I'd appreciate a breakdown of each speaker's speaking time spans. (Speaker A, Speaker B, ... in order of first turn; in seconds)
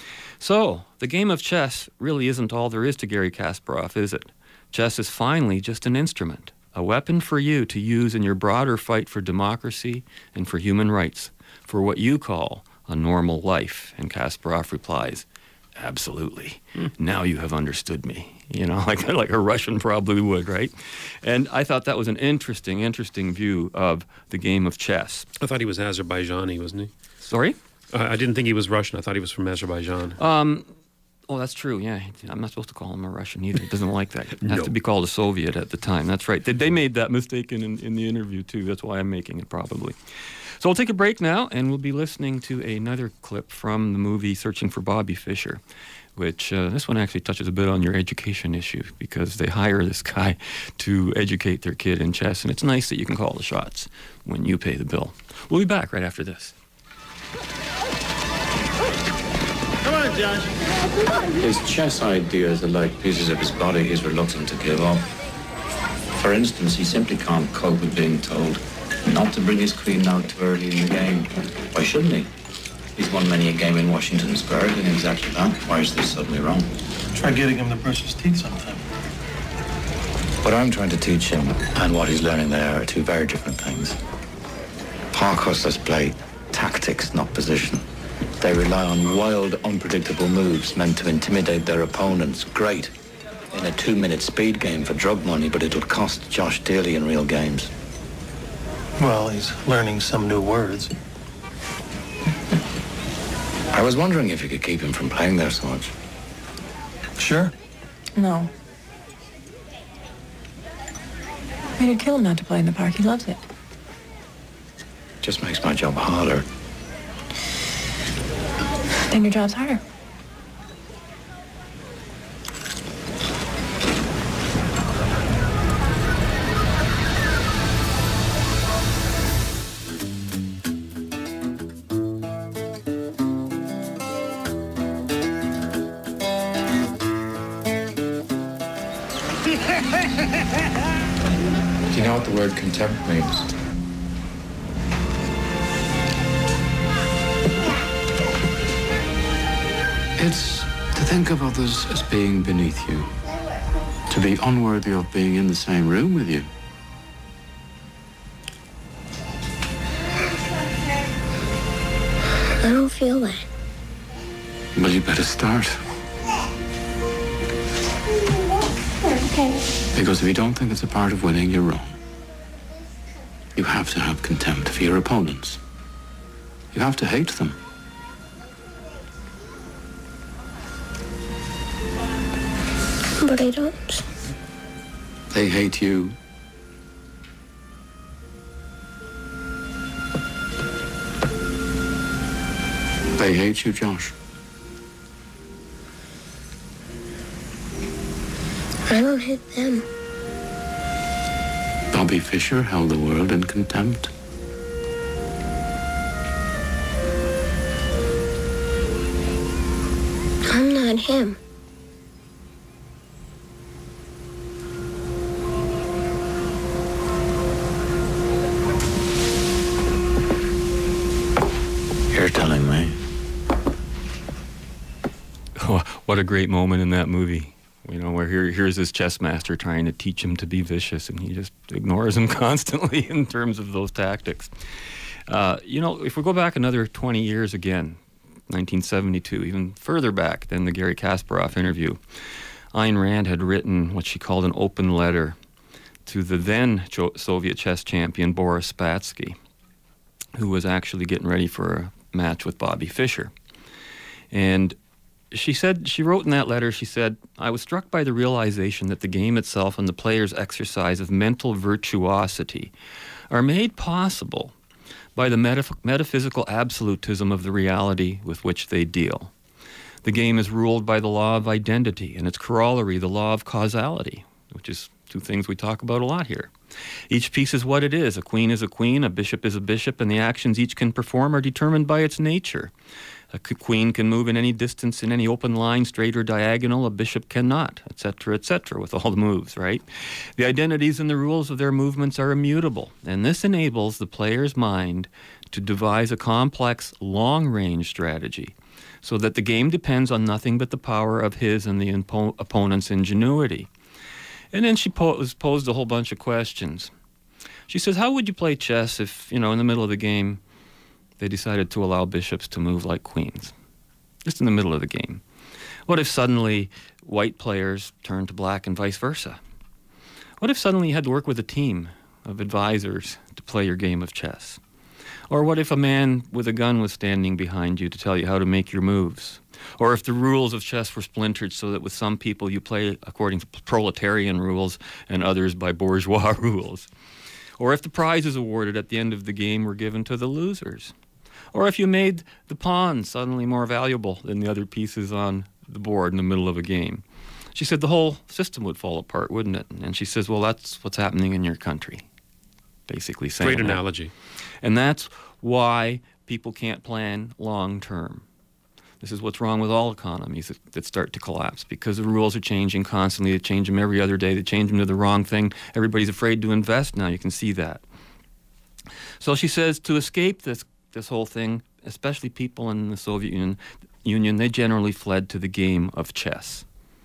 Speaker A: 0.4-25.2, 27.2-27.6, 30.2-30.7, 31.3-40.0, 40.6-45.6, 46.1-56.5, 225.5-234.5, 235.3-242.0, 242.7-245.4, 246.1-249.4, 250.3-253.3, 254.3-254.8, 255.3-262.7, 263.3-264.5, 265.1-269.3, 270.0-276.5, 277.1-282.7, 283.3-303.7, 304.5-306.9, 307.7-310.4, 311.2-313.5, 314.2-315.2, 315.9-319.4, 320.4-324.6, 325.3-336.9, 337.6-340.9, 341.5-352.1, 352.9-353.8, 354.6-358.2, 359.0-367.8, 369.2-376.6
Speaker B: 25.4-26.9, 27.9-30.2, 34.4-34.7, 353.4-354.1
Speaker C: 61.4-65.1, 66.1-72.3, 73.0-76.7, 80.4-84.0, 85.1-87.8, 88.4-92.9, 93.5-97.7, 103.7-105.9, 115.2-116.4, 141.9-143.4, 150.2-153.1, 154.1-156.5, 164.8-165.8, 169.9-172.0, 173.5-175.6, 176.7-177.6, 185.3-186.2, 193.2-194.1, 201.9-204.1, 222.1-223.0
Speaker D: 77.1-78.8, 99.0-100.9, 107.2-107.5
Speaker E: 108.2-108.5, 111.8-113.4, 119.1-119.8
Speaker F: 162.6-163.4, 169.1-169.6, 183.2-184.0, 198.9-199.8, 210.5-211.3